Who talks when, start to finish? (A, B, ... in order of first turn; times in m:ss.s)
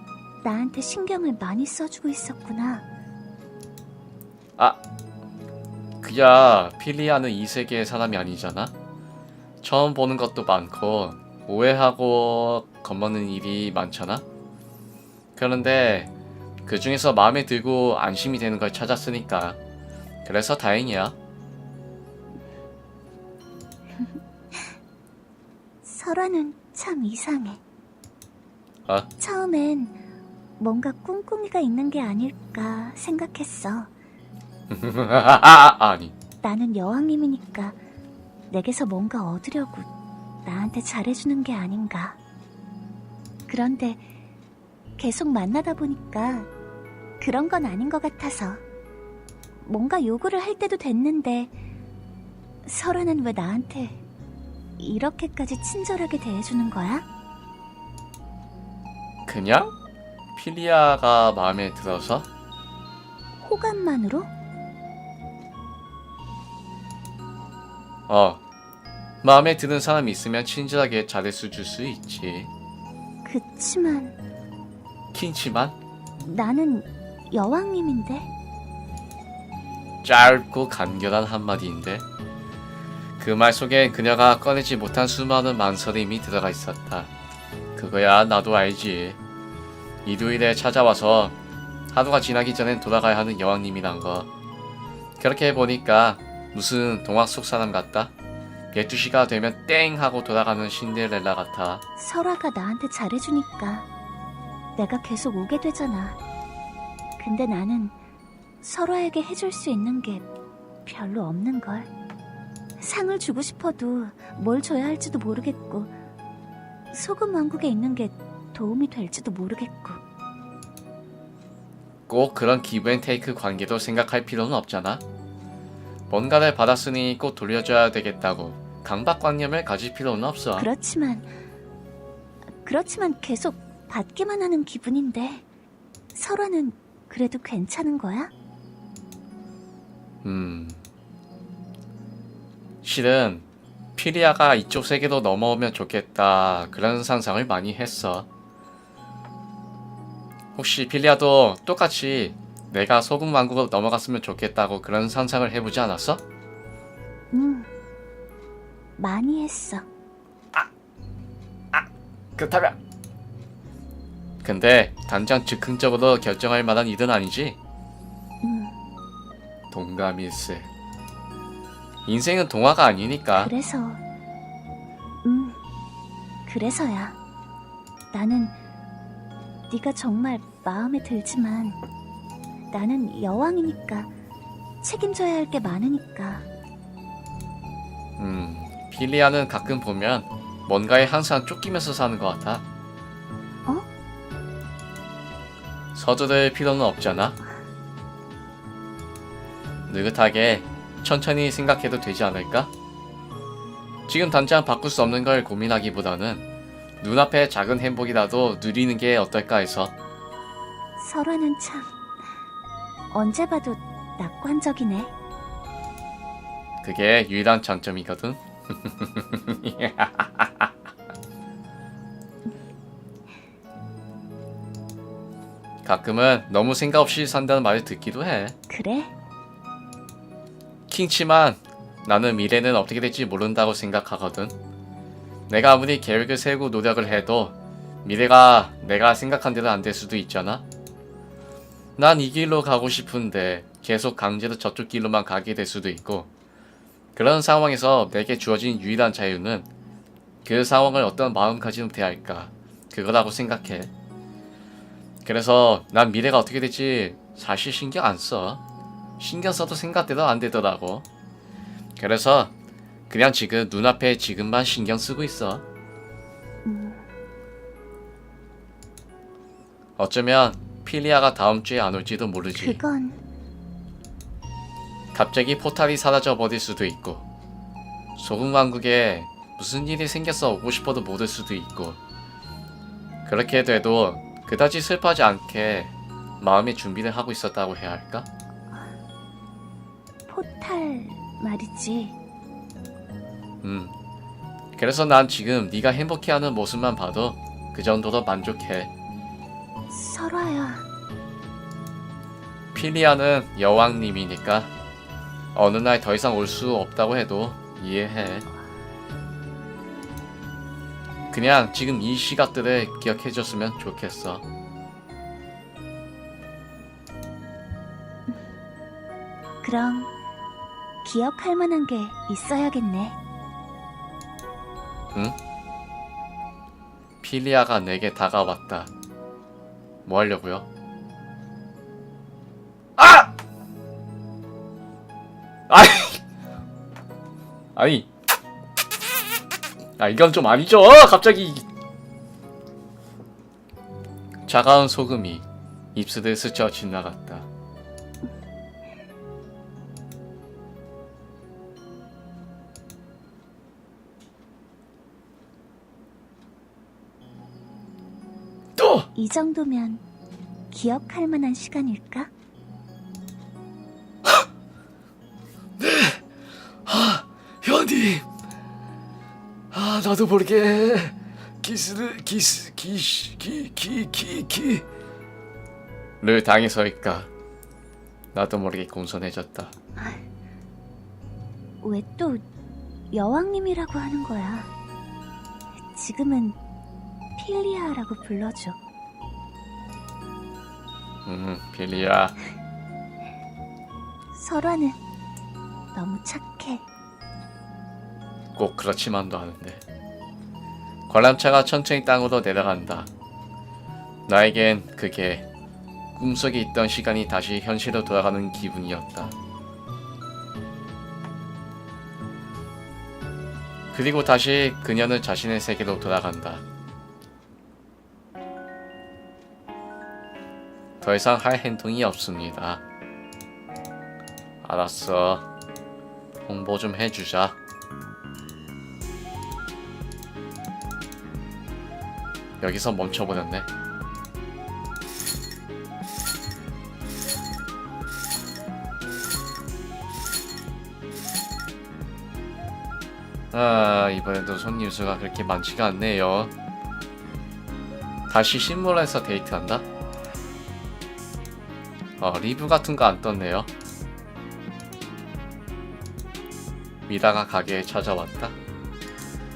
0:00.4-0:02.8 A
0:06.0-0:08.7 B
0:09.6-0:14.2 B
0:15.3-0:16.1 B
0:16.6-0:19.6 B
0:20.2-0:21.2 B
0:25.8-0:27.6 A
0:29.2-0:29.9 A
0:30.6-0:33.9 A
0:34.7-0:36.1 B
0:36.4-0:37.8 A
0:38.5-0:39.9 A
0:40.4-0:42.2 A
0:43.5-0:44.0 A
0:45.0-0:46.5 A
0:47.2-0:48.6 A
0:49.6-0:51.5 A
0:52.6-0:54.0 A
0:54.8-0:57.0 A
0:59.2-0:59.8 B
1:00.3-1:02.3 B
1:03.4-1:04.3 A
1:08.1-1:08.4 B
1:09.2-1:12.5 B
1:13.2-1:14.2 A
1:15.1-1:15.8 B
1:16.2-1:18.3 A
1:20.0-1:22.0 B
1:23.2-1:27.1 B
1:27.7-1:29.2 B
1:30.0-1:31.4 B
1:31.9-1:34.3 B
1:35.2-1:38.1 B
1:38.7-1:41.8 B
1:42.0-1:43.9 A
1:44.8-1:46.2 A
1:47.2-1:48.0 A
1:48.6-1:50.2 A
1:50.8-1:51.9 A
1:52.8-1:55.9 A
1:56.9-2:00.0 A
2:02.1-2:05.0 B
2:06.1-2:10.7 B
2:10.6-2:11.3 A
2:12.6-2:15.4 A
2:16.1-2:18.3 A
2:20.2-2:20.8 B
2:22.8-2:23.4 B
2:24.0-2:28.3 B
2:30.5-2:36.2 B
2:37.3-2:37.7 A
2:39.0-2:39.8 A
2:41.7-2:42.8 B
2:44.4-2:47.6 B
2:48.4-2:48.7 A
2:49.7-2:50.7 B
2:52.0-2:53.5 B
2:53.4-2:54.0 A
2:55.2-2:55.6 A
2:56.4-2:57.2 A
2:58.1-2:58.6 A
2:59.7-3:01.8 A
3:02.7-3:04.1 A
3:04.8-3:06.5 A
3:08.2-3:12.6 B
3:15.9-3:17.4 B
3:19.9-3:22.7 B
3:24.1-3:26.4 B
3:27.0-3:29.9 B
3:31.0-3:31.9 A
3:33.1-3:35.1 A
3:36.8-3:40.8 B
3:45.8-3:48.6 B
3:48.7-3:49.1 A
3:50.9-3:54.5 B
3:55.5-4:00.6 B
4:02.0-4:06.3 B
4:07.1-4:09.7 B
4:10.4-4:13.9 B
4:15.2-4:18.6 B
4:19.2-4:21.0 B
4:22.0-4:22.5 B
4:23.1-4:25.6 B
4:26.6-4:27.0 A
4:30.0-4:32.8 B
4:32.6-4:33.2 A
4:35.1-4:37.3 B
4:38.2-4:42.0 B
4:43.2-4:48.3 B
4:50.3-4:52.2 A
4:53.6-4:53.9 B
4:54.8-4:58.9 B
4:59.9-5:00.8 A
5:02.7-5:04.7 B
5:05.5-5:08.4 B
5:11.3-5:14.4 B
5:19.6-5:20.1 A
5:21.0-5:23.2 A
5:27.2-5:28.9 B
5:30.0-5:30.7 B
5:33.0-5:33.3 B
5:35.7-5:36.2 B
5:37.7-5:38.1 B
5:40.0-5:41.7 B
5:44.4-5:47.5 B
5:58.8-5:59.1 B
5:59.1-6:00.0 A
6:00.7-6:02.3 A
6:05.8-6:06.2 B
6:06.8-6:08.2 B
6:09.7-6:14.8 B
6:16.2-6:17.3 B
6:18.3-6:19.7 B
6:20.0-6:20.2 A
6:21.8-6:22.4 A
6:23.1-6:24.7 A
6:25.9-6:26.6 A
6:27.4-6:28.8 A
6:31.2-6:32.4 B
6:34.3-6:35.0 A
6:35.9-6:36.8 A
6:38.5-6:39.8 B
6:41.1-6:43.1 B
6:44.3-6:45.4 B
6:46.1-6:49.3 B
6:53.9-6:56.6 B
7:01.0-7:02.8 B
7:04.6-7:05.5 B
7:06.4-7:07.6 B
7:12.6-7:13.7 B
7:23.5-7:26.5 B
7:28.3-7:29.8 B
7:32.2-7:33.7 B
7:37.1-7:38.6 B